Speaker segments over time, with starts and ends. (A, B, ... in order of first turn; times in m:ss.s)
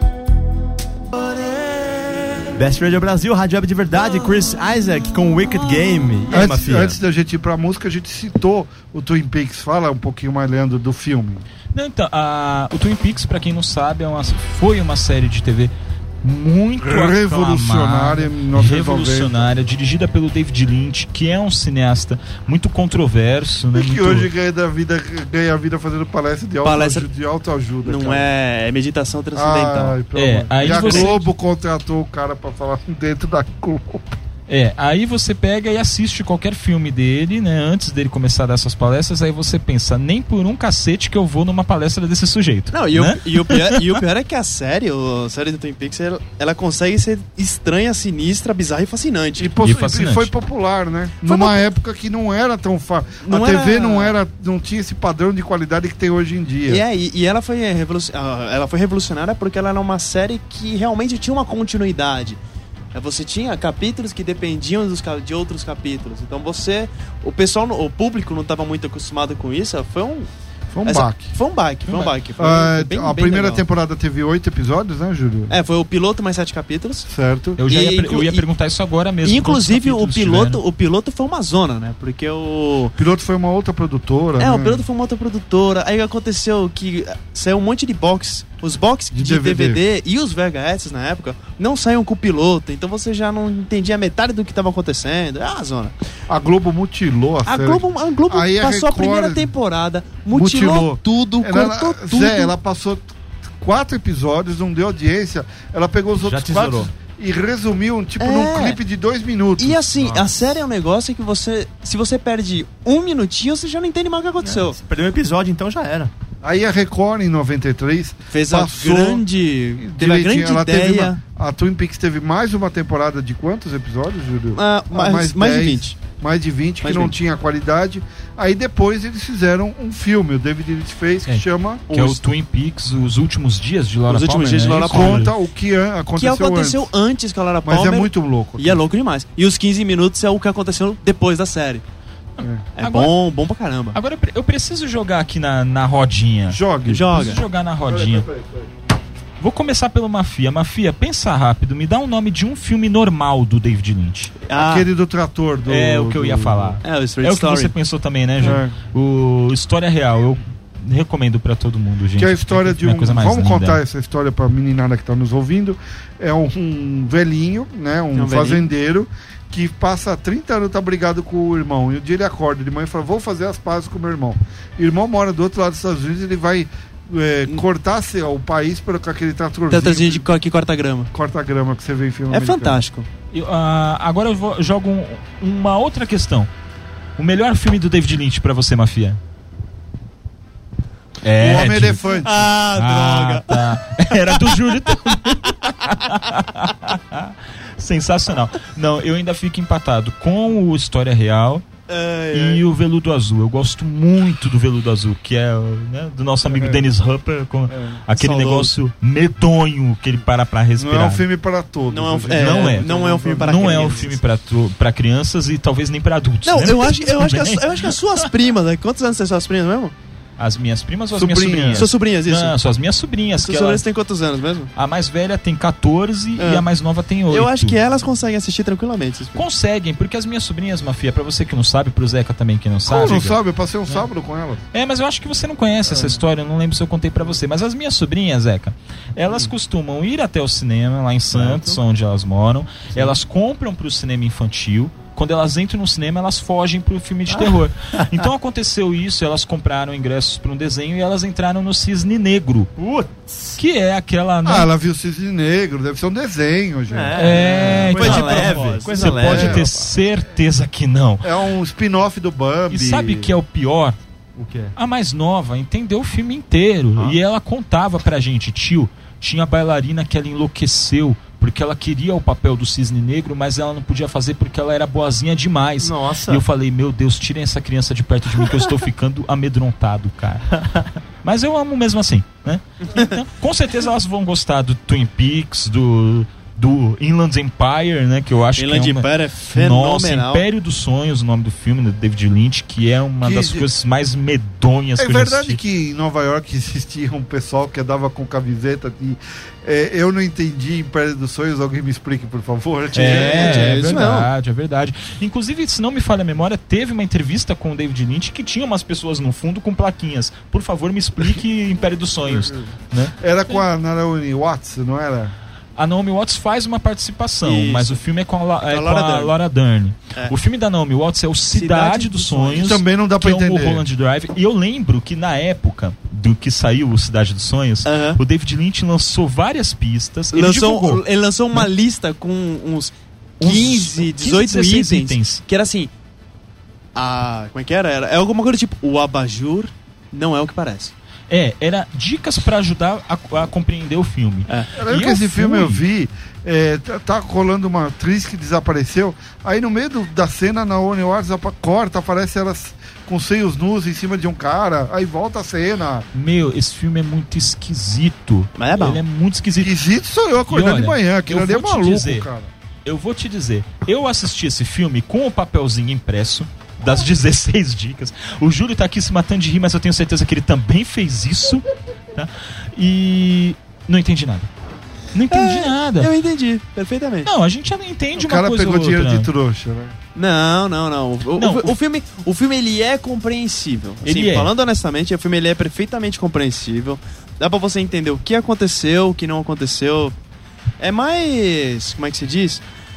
0:02.5-0:07.0 A
0:06.3-0:11.4 B
0:11.7-0:24.3 C
0:16.8-0:19.5 B
0:23.7-0:28.3 B
0:26.6-0:27.1 D
0:27.8-0:30.0 D
0:29.3-0:34.2 B
0:30.1-0:31.2 C
0:30.6-0:31.1 D
0:34.5-0:44.0 C
0:42.7-0:49.5 D
0:49.4-0:56.8 B
0:49.6-0:50.3 C
0:51.2-0:51.6 D
0:53.2-0:54.2 D
0:56.7-1:02.4 D
1:02.9-1:10.3 D
1:10.7-1:11.3 B
1:10.8-1:13.6 D
1:11.9-1:12.1 C
1:12.4-1:15.6 B
1:15.5-1:17.1 D
1:17.1-1:17.6 B
1:17.6-1:20.6 C
1:17.6-1:18.5 D
1:19.2-1:23.0 D
1:23.0-1:24.8 B
1:24.4-1:35.9 D
1:29.1-1:29.8 B
1:36.3-1:39.5 B
1:37.4-1:42.5 D
1:40.3-1:49.8 B
1:46.2-1:46.9 A
1:48.2-1:48.8 D
1:49.6-1:54.8 D
1:50.0-1:50.3 A
1:54.4-1:56.1 A
1:56.4-1:59.2 B
1:58.3-2:01.2 D
1:59.8-2:11.8 B
2:04.5-2:06.0 D
2:06.8-2:07.1 D
2:11.3-2:15.3 C
2:11.9-2:12.2 D
2:14.1-2:15.3 D
2:14.8-2:16.9 B
2:16.2-2:21.8 D
2:17.6-2:18.8 B
2:22.4-2:22.6 B
2:22.8-2:24.0 D
2:22.8-2:23.1 C
2:23.9-2:28.3 C
2:26.5-2:28.7 B
2:26.9-2:27.4 D
2:29.4-2:34.4 C
2:34.4-2:34.9 D
2:34.5-2:36.8 B
2:35.7-2:43.8 C
2:36.8-2:37.7 D
2:38.4-2:38.8 B
2:42.2-3:00.3 B
2:48.1-2:48.6 D
2:59.7-3:01.1 D
3:01.1-3:02.8 B
3:02.3-3:03.1 D
3:03.3-3:06.5 C
3:07.2-3:09.2 C
3:11.2-3:12.2 C
3:11.4-3:12.3 B
3:12.1-3:15.9 D
3:12.7-3:21.6 C
3:21.9-3:22.6 D
3:22.3-3:31.2 C
3:26.5-3:26.8 B
3:27.7-3:28.0 B
3:28.1-3:28.7 D
3:30.8-3:34.2 B
3:31.9-3:34.2 D
3:32.3-3:38.2 C
3:36.4-3:39.9 D
3:40.4-3:43.8 C
3:41.1-3:41.9 B
3:41.7-3:42.5 D
3:43.4-3:44.7 D
3:44.8-3:47.8 C
3:46.4-3:46.6 D
3:47.3-3:49.4 D
3:49.3-3:53.4 C
3:52.8-3:54.6 B
3:54.7-4:12.7 C
3:55.9-3:56.2 B
4:01.3-4:01.8 A
4:02.9-4:03.2 A
4:07.3-4:08.2 A
4:12.8-4:13.6 A
4:13.6-4:14.7 C
4:14.4-4:17.7 B
4:16.9-4:19.7 A
4:17.1-4:21.3 C
4:17.7-4:19.6 D
4:19.2-4:19.8 B
4:21.2-4:23.4 B
4:22.7-4:24.0 C
4:24.4-4:24.7 A
4:24.7-4:40.6 C
4:35.8-4:36.4 A
4:41.2-4:55.6 C
4:42.8-4:43.2 D
4:48.6-4:50.4 D
4:53.2-4:53.7 B
4:55.0-5:03.8 B
5:02.9-5:04.3 D
5:02.9-5:13.2 C
5:13.2-5:15.3 B
5:15.8-5:31.7 C
5:17.4-5:18.0 D
5:18.7-5:19.3 D
5:21.5-5:22.8 D
5:22.6-5:23.8 B
5:27.8-5:28.2 D
5:30.3-5:35.9 D
5:33.4-5:35.4 C
5:36.9-5:40.9 D
5:41.3-5:45.8 C
5:44.8-5:56.0 B
5:56.1-5:59.8 C
5:58.6-5:59.0 D
5:59.6-6:02.5 B
6:00.5-6:02.3 C
6:02.8-6:14.5 C
6:15.1-6:16.1 C
6:15.3-6:17.3 D
6:17.2-6:19.3 C
6:18.2-6:19.9 B
6:20.1-6:30.2 D
6:21.4-6:21.7 C
6:24.0-6:24.5 C
6:30.8-6:32.6 D